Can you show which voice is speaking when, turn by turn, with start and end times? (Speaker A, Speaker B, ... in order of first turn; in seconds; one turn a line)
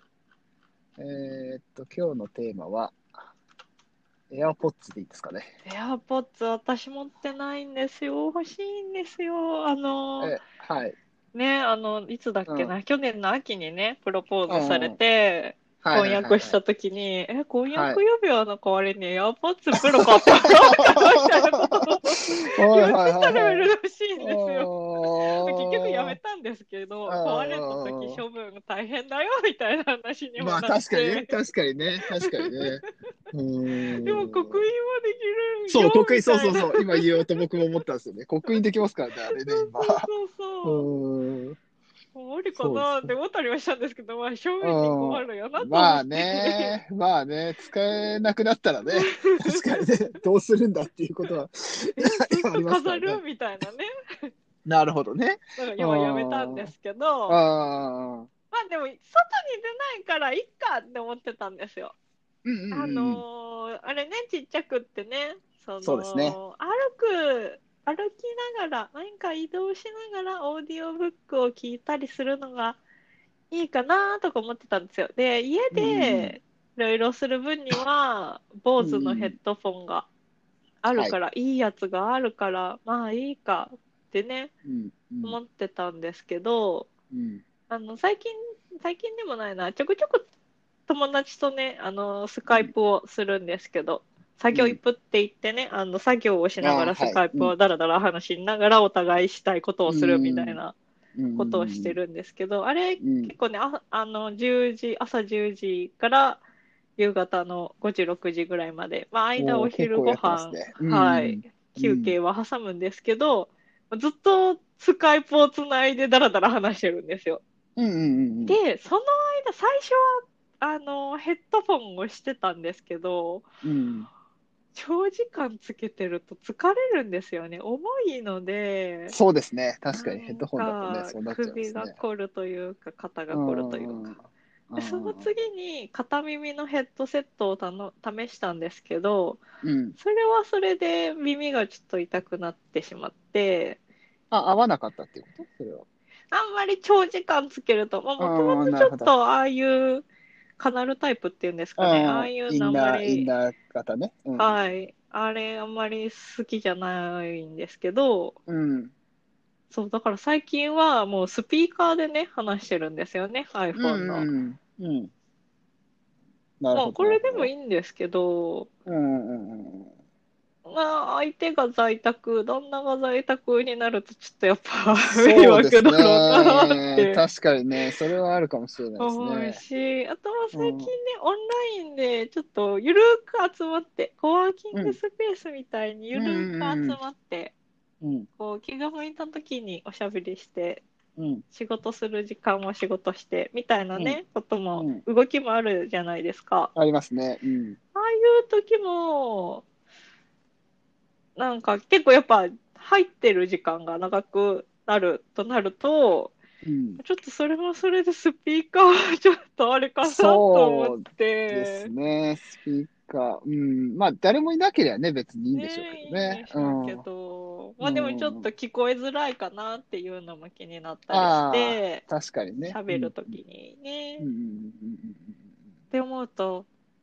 Speaker A: 1.0-3.0
Speaker A: 4.3-5.5
Speaker B: 5.7-10.3
Speaker A: 10.2-11.0
Speaker B: 11.3-24.7
Speaker A: 12.5-12.7
Speaker A: 14.5-15.0
Speaker A: 15.8-16.6
Speaker A: 17.7-18.0
Speaker A: 19.8-26.2
Speaker B: 25.2-31.3
Speaker A: 27.1-28.2
Speaker A: 30.4-34.6
Speaker B: 32.2-32.7
Speaker B: 34.0-37.4
Speaker A: 35.7-40.1
Speaker B: 39.3-40.9
Speaker A: 40.6-41.6
Speaker B: 42.1-46.8
Speaker A: 42.6-43.1
Speaker A: 44.6-53.2
Speaker B: 48.9-50.0
Speaker B: 52.0-54.3
Speaker A: 54.6-56.7
Speaker B: 55.6-57.4
Speaker A: 57.3-58.3
Speaker B: 58.5-62.0
Speaker A: 62.5-63.2
Speaker B: 62.7-72.8
Speaker A: 65.8-66.4
Speaker B: 73.5-80.1
Speaker A: 75.7-76.3
Speaker A: 78.8-79.3
Speaker B: 80.8-84.5
Speaker A: 84.7-85.4
Speaker B: 85.2-86.9
Speaker A: 87.1-87.4
Speaker B: 87.7-90.2
Speaker B: 90.9-100.8
Speaker A: 94.5-94.8
Speaker A: 96.6-97.5
Speaker A: 99.9-100.6
Speaker A: 101.2-102.0
Speaker B: 101.4-106.4
Speaker A: 103.0-103.3
Speaker B: 107.0-117.4
Speaker A: 109.4-112.2
Speaker A: 117.8-118.6
Speaker B: 118.5-123.5
Speaker A: 123.6-124.1
Speaker B: 124.8-129.2
Speaker A: 129.1-132.0
Speaker B: 129.9-134.2
Speaker A: 133.3-135.3
Speaker B: 134.8-139.4
Speaker A: 139.6-140.0
Speaker B: 140.0-143.8
Speaker A: 144.3-145.9
Speaker B: 146.3-150.1
Speaker A: 148.2-149.1
Speaker B: 150.6-153.3
Speaker A: 151.8-154.6
Speaker B: 154.4-158.4
Speaker A: 158.5-158.9
Speaker B: 159.7-164.3
Speaker A: 163.8-165.1
Speaker A: 166.6-167.5
Speaker B: 166.7-168.7
Speaker A: 168.9-169.9
Speaker B: 170.7-177.2
Speaker A: 175.1-179.6
Speaker B: 179.0-187.5
Speaker A: 180.5-180.9
Speaker A: 184.7-185.0
Speaker A: 186.1-187.0
Speaker A: 188.0-188.3
Speaker B: 188.4-190.8
Speaker A: 191.2-191.4
Speaker B: 191.5-196.7
Speaker A: 194.8-195.0
Speaker A: 196.8-197.8
Speaker B: 197.9-199.6
Speaker B: 201.4-206.3
Speaker A: 206.6-207.0
Speaker B: 207.0-211.9
Speaker A: 210.0-217.0
Speaker B: 215.5-222.1
Speaker A: 217.8-218.5
Speaker A: 221.1-223.4
Speaker B: 222.7-224.2
Speaker A: 224.2-225.4
Speaker B: 225.9-226.7